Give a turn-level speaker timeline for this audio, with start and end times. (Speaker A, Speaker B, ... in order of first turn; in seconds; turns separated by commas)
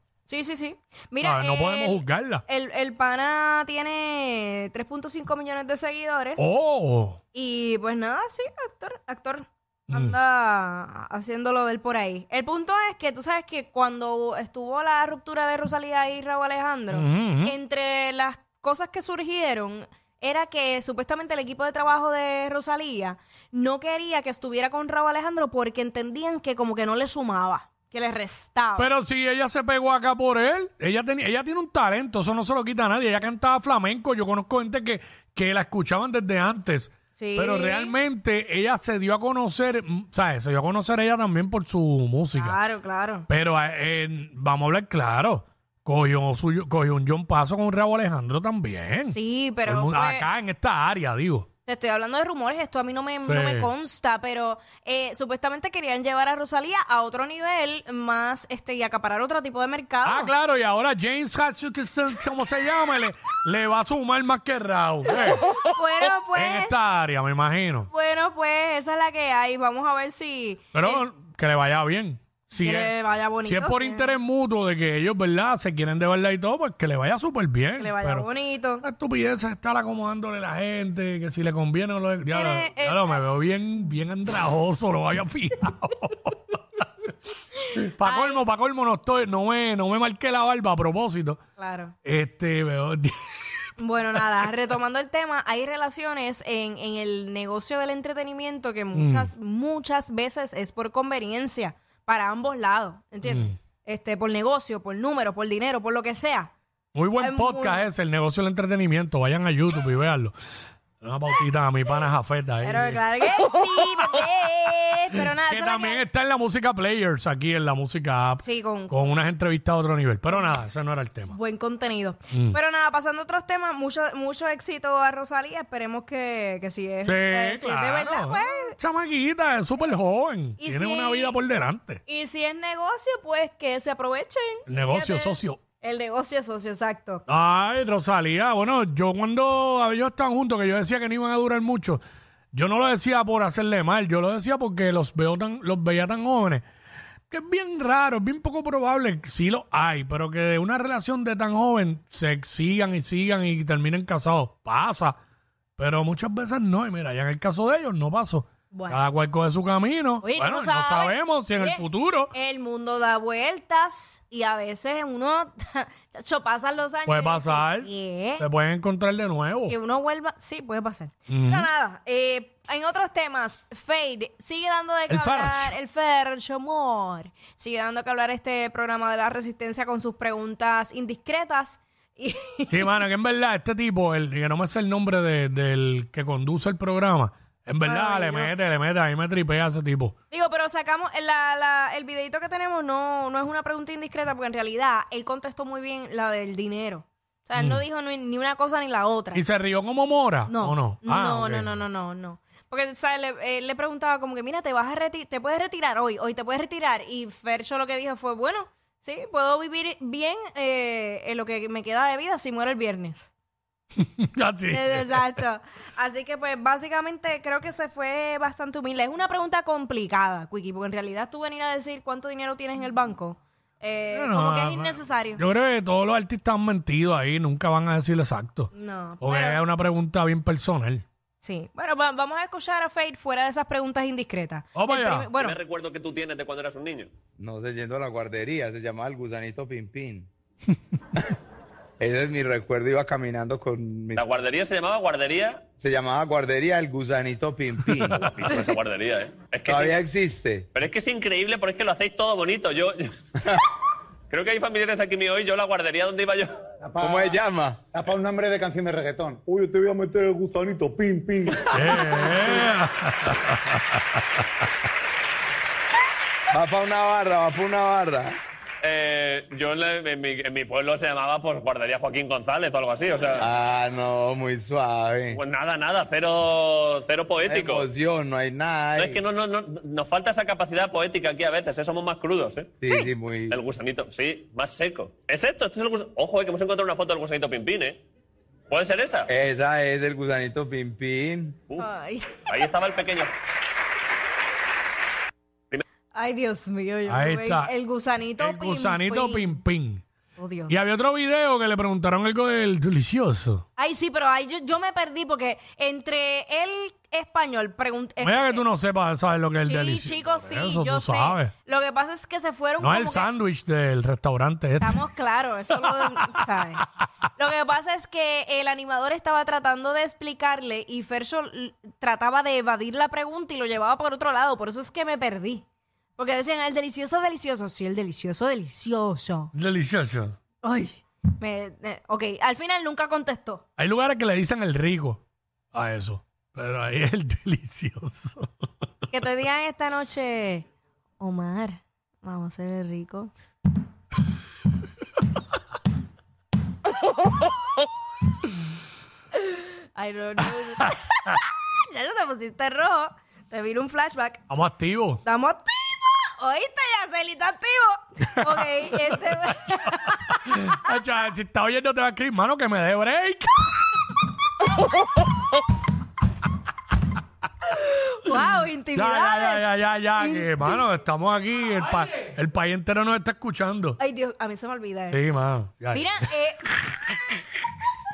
Speaker A: 0.3-6.5, Speaker B: 1.2-2.4, Speaker B: 6.4-7.2, Speaker A: 7.3-28.9, Speaker B: 9.9-10.2, Speaker B: 16.9-17.5, Speaker B: 28.8-42.6, Speaker A: 37.1-38.0, Speaker A: 42.3-43.3, Speaker B: 43.3-51.5, Speaker A: 49.0-50.3, Speaker A: 51.6-60.3, Speaker B: 53.2-53.7, Speaker B: 60.0-65.5, Speaker A: 65.3-66.8, Speaker B: 66.3-67.9, Speaker A: 67.9-71.0, Speaker B: 70.7-78.3, Speaker A: 72.6-74.1, Speaker A: 77.8-78.8, Speaker B: 78.8-86.8, Speaker A: 82.3-83.2, Speaker B: 87.7-91.4, Speaker A: 87.8-88.4, Speaker A: 91.6-91.9, Speaker B: 92.0-93.4, Speaker A: 93.8-106.5, Speaker B: 98.9-99.3, Speaker B: 103.2-103.5, Speaker B: 106.9-110.3, Speaker A: 107.2-107.8, Speaker B: 111.0-113.0, Speaker A: 112.6-116.0, Speaker B: 115.5-121.4, Speaker A: 118.4-119.1, Speaker A: 121.3-128.8, Speaker B: 122.3-122.6, Speaker B: 127.0-132.0, Speaker A: 130.6-131.3, Speaker A: 132.1-137.2, Speaker B: 134.7-135.6, Speaker B: 137.3-142.0, Speaker B: 142.5-146.6, Speaker B: 147.3-155.2, Speaker B: 155.8-162.3, Speaker A: 158.7-159.0, Speaker A: 160.2-168.4, Speaker B: 167.1-169.8, Speaker A: 169.7-182.9, Speaker B: 171.3-171.7, Speaker B: 175.1-175.7, Speaker B: 182.7-190.1, Speaker A: 187.8-188.5, Speaker A: 190.3-199.4, Speaker B: 197.6-197.8, Speaker B: 199.3-201.8, Speaker A: 200.5-213.3, Speaker B: 213.9-215.4, Speaker A: 214.7-225.4, Speaker B: 224.1-231.0, Speaker A: 228.7-229.6, Speaker A: 231.4-235.6, Speaker B: 234.7-235.3, Speaker C: 235.4-237.1, Speaker D: 237.4-240.3, Speaker D: 242.0-244.2, Speaker C: 244.1-245.6, Speaker D: 245.8-248.3, Speaker B: 248.0-248.5, Speaker C: 248.1-250.0, Speaker D: 249.6-250.7, Speaker C: 250.7-253.0, Speaker C: 254.3-256.5, Speaker E: 256.8-261.6, Speaker D: 257.0-257.9, Speaker B: 261.7-264.2, Speaker D: 266.5-268.3, Speaker C: 268.8-273.5, Speaker D: 273.4-275.4, Speaker C: 275.3-277.9, Speaker D: 277.4-279.2, Speaker C: 278.9-282.7, Speaker D: 282.8-283.6, Speaker C: 283.5-288.0, Speaker C: 288.7-289.3, Speaker D: 289.3-291.6, Speaker A: 291.8-292.5, Speaker C: 292.5-293.3, Speaker A: 296.1-299.6, Speaker B: 297.1-297.7, Speaker B: 298.4-300.0, Speaker A: 300.4-300.9, Speaker B: 300.7-303.6, Speaker A: 303.8-308.6, Speaker B: 308.2-311.5, Speaker A: 309.6-313.3, Speaker B: 312.8-315.1, Speaker A: 314.8-325.6, Speaker B: 315.7-316.8, Speaker A: 326.2-329.5, Speaker B: 329.5-330.4, Speaker A: 330.6-333.6, Speaker B: 333.8-335.2, Speaker B: 335.7-338.5, Speaker A: 339.1-340.6, Speaker A: 341.2-343.3, Speaker A: 349.4-354.4, Speaker B: 354.5-355.2, Speaker A: 355.2-360.5, Speaker B: 358.3-359.5, Speaker B: 360.3-363.7, Speaker A: 367.7-370.7, Speaker B: 368.9-374.0, Speaker A: 374.0-375.2, Speaker B: 375.1-377.4, Speaker A: 375.9-376.6